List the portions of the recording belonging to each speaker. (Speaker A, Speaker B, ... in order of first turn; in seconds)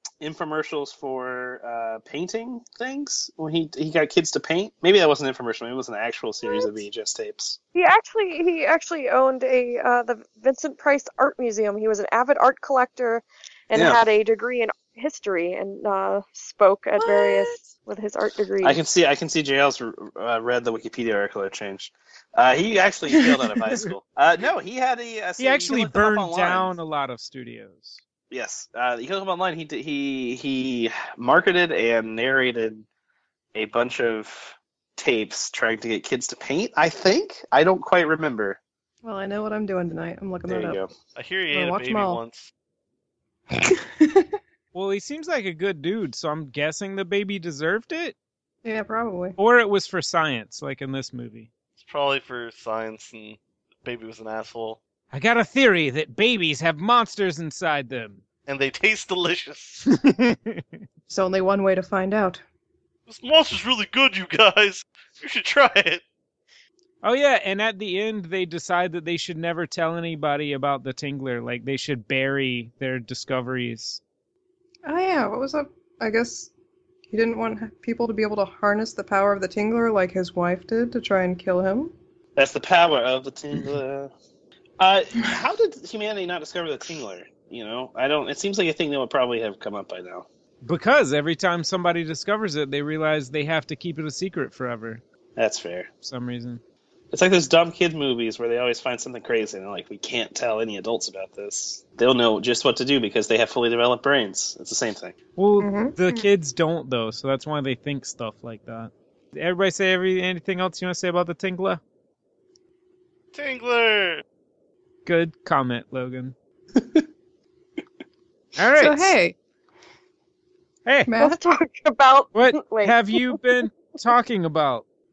Speaker A: 0.2-7.6, 13.7-14.0, 18.6-26.8, 28.3-32.9, 33.5-38.6, 40.5-40.9, 82.4-84.1, 84.8-90.3, 95.4-95.9, 97.1-105.2, 116.8-117.0
Speaker B: 6.4-6.8, 7.8-18.8, 121.2-123.2
Speaker C: 17.0-17.5, 39.0-40.8, 41.5-42.2, 43.5-44.3, 48.6-49.4, 61.1-62.4, 74.9-76.5, 77.1-81.9, 105.6-106.2, 118.8-119.4, 121.1-121.4
Speaker D: 25.4-28.0, 44.7-48.1, 49.4-51.5, 55.1-58.2, 59.9-60.8, 67.0-74.0, 90.6-95.0, 96.0-96.6, 105.4-111.8, 115.0-116.3, 118.6-119.2, 120.8-121.1, 122.3-124.8
Speaker E: 41.1-42.5, 51.8-54.8, 58.5-59.8, 63.1-66.0, 113.3-114.2